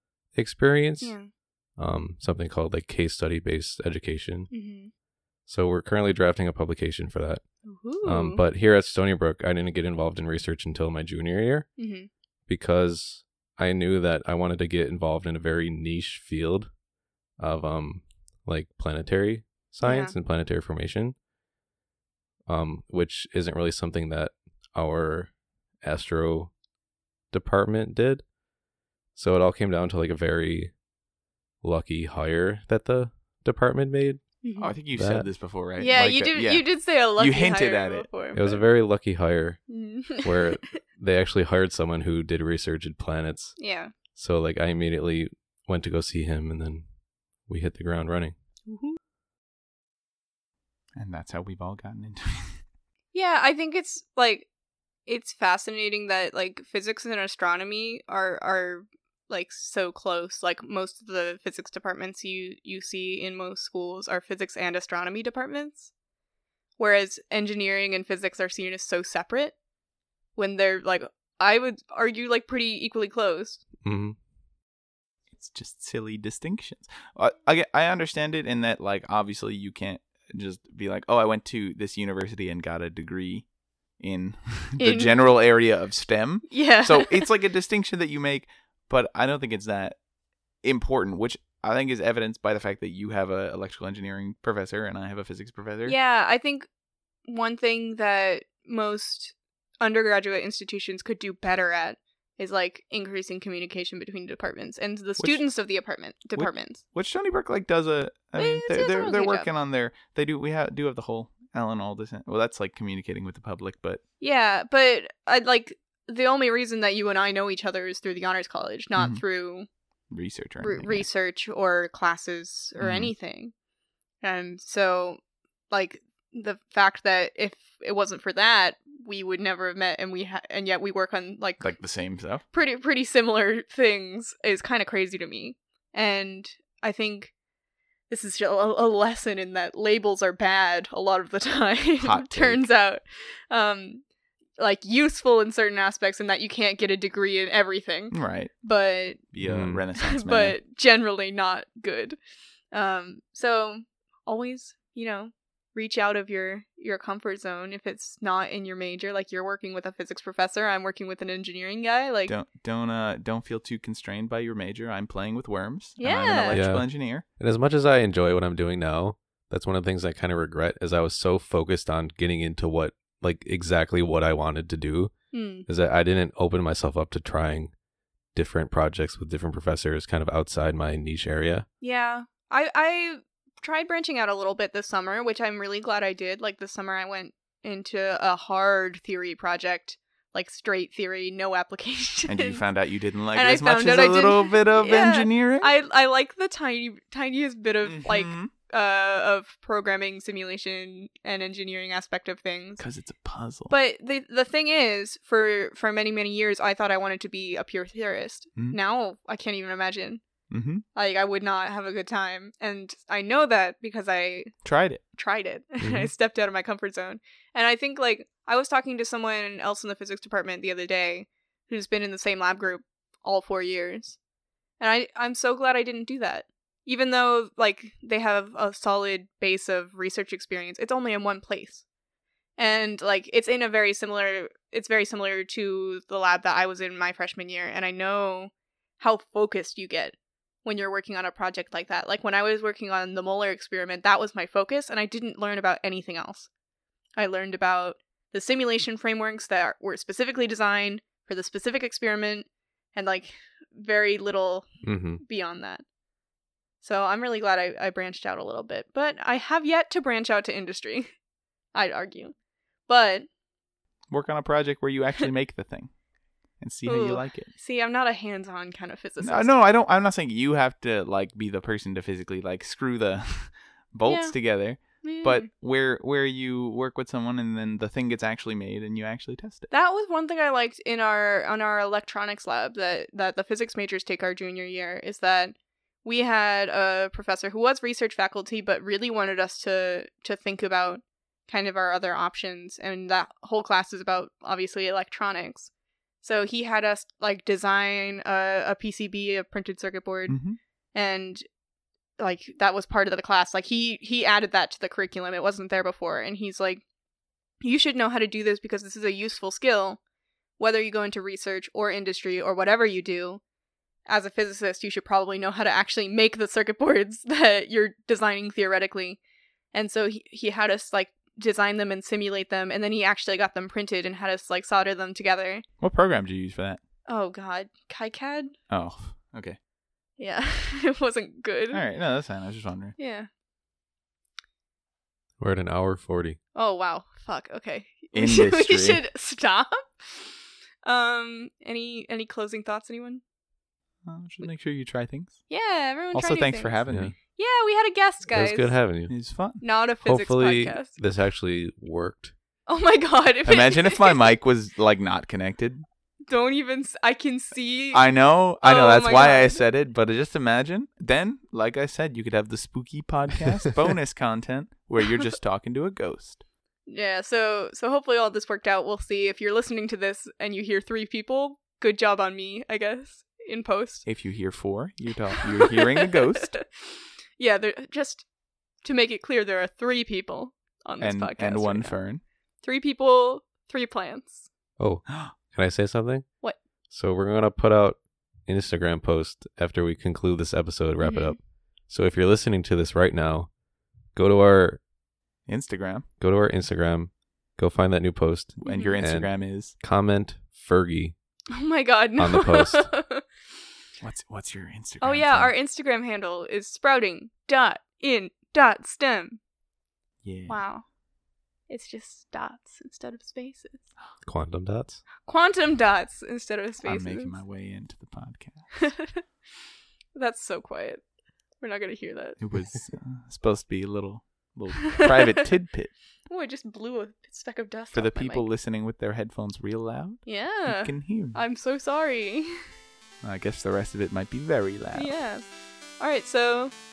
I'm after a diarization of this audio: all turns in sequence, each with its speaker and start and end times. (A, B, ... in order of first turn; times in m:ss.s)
0:00.3-0:01.2 A
0:01.0-0:01.3 B
0:01.8-0:04.5 A
0:04.5-0:04.9 B
0:05.5-0:07.4 A
0:07.7-0:08.4 B
0:08.0-0:11.7 A
0:11.8-0:12.1 B
0:12.5-0:16.7 A
0:17.4-0:21.2 A
0:19.8-0:20.2 B
0:22.5-0:26.5 A
0:27.3-0:28.2 A
0:29.2-0:30.8 A
0:31.6-0:34.2 A
0:34.4-0:34.7 B
0:34.6-0:38.1 C
0:35.0-0:35.3 A
0:35.8-0:38.6 B
0:38.3-0:39.6 A
0:39.7-0:40.4 B
0:40.2-0:43.6 A
0:43.6-0:43.9 B
0:44.2-0:46.9 A
0:47.5-0:48.4 A
0:48.7-0:49.0 B
0:51.0-0:52.6 C
0:53.1-0:54.5 B
0:55.1-1:05.9 B
1:06.8-1:09.6 B
1:10.4-1:13.6 B
1:13.8-1:14.2 A
1:15.3-1:23.5 C
1:24.0-1:30.0 C
1:24.8-1:25.1 B
1:26.5-1:27.3 B
1:30.6-1:36.0 C
1:35.9-1:36.7 B
1:37.3-1:46.8 B
1:46.4-1:54.0 C
1:48.4-1:49.5 B
1:54.2-1:59.7 B
1:59.0-1:59.2 C
2:00.1-2:01.1 C
2:00.6-2:03.5 B
2:02.8-2:03.1 C
2:04.2-2:11.8 B
2:11.6-2:12.4 C
2:12.5-2:17.3 B
2:18.1-2:24.0 B
2:22.0-2:22.7 C
2:24.6-2:29.2 B
2:28.1-2:28.5 C
2:29.3-2:30.6 C
2:29.4-2:29.8 A
2:30.0-2:32.2 B
2:32.7-2:42.4 B
2:42.3-2:47.2 C
2:46.0-2:46.6 B
2:46.5-2:46.9 A
2:47.4-2:55.1 A
2:55.3-2:55.7 B
2:55.7-2:57.7 A
2:58.4-3:01.7 A
3:01.8-3:12.6 B
3:12.3-3:15.7 C
3:13.3-3:22.8 B
3:17.8-3:18.5 C
3:22.8-3:23.7 C
3:23.7-3:30.2 B
3:30.5-3:30.8 C
3:31.0-3:34.5 B
3:34.6-3:35.0 C
3:35.2-3:44.2 B
3:44.8-3:51.8 B
3:52.6-4:06.5 B
4:07.2-4:14.7 B
4:14.8-4:15.2 A
4:15.2-4:15.8 B
4:16.8-4:21.1 B
4:21.7-4:22.4 B
4:22.9-4:23.3 B
4:24.1-4:25.9 C
4:26.6-4:27.5 C
4:26.9-4:29.6 B
4:29.2-4:39.7 C
4:34.1-4:35.5 B
4:39.7-4:55.7 B
4:56.2-5:00.4 B
5:00.3-5:00.6 C
5:00.9-5:01.4 B
5:02.2-5:06.8 B
5:07.6-5:10.0 B
5:10.6-5:13.4 B
5:14.1-5:19.2 B
5:19.7-5:25.6 B
5:25.8-5:26.8 C
5:27.1-5:28.6 B
5:28.7-5:29.6 C
5:30.2-5:31.8 B
5:31.7-5:33.0 C
5:33.0-5:33.3 B
5:35.4-5:36.4 A
5:36.6-5:43.2 B
5:38.1-5:39.0 C
5:44.0-5:45.4 C
5:45.5-5:48.7 B
5:46.1-5:47.1 C
5:48.3-5:49.1 A
5:49.1-5:49.6 C
5:49.6-5:50.9 B
5:50.1-5:52.3 A
5:52.7-5:54.2 B
5:53.5-5:55.8 C
5:56.3-5:58.0 B
5:57.9-6:06.4 C
5:58.6-5:59.6 B
6:06.9-6:14.1 B
6:14.1-6:16.6 C
6:15.6-6:18.3 B
6:18.8-6:22.0 B
6:21.0-6:22.2 C
6:22.6-6:24.5 B
6:24.8-6:26.3 A
6:26.9-6:31.4 A
6:31.0-6:31.4 B
6:31.9-6:33.5 A
6:34.1-6:34.8 A
6:35.5-6:36.1 C
6:36.2-6:41.2 A
6:38.6-6:39.8 C
6:38.6-6:39.0 B
6:41.5-6:43.2 B
6:42.2-6:42.9 A
6:44.0-6:45.5 C
6:45.0-6:49.4 B
6:50.2-6:50.6 C
6:50.5-6:50.9 B
6:51.7-6:53.9 B
6:54.2-6:55.0 A
6:55.2-6:57.4 B
6:56.8-6:58.7 C
6:58.8-6:59.2 B
7:00.2-7:01.0 B
7:01.6-7:02.4 B
7:02.4-7:05.9 C
7:04.9-7:05.4 B
7:06.3-7:08.5 B
7:07.9-7:11.4 C
7:10.3-7:12.6 B
7:13.2-7:15.1 C
7:14.9-7:15.4 B
7:16.0-7:16.8 B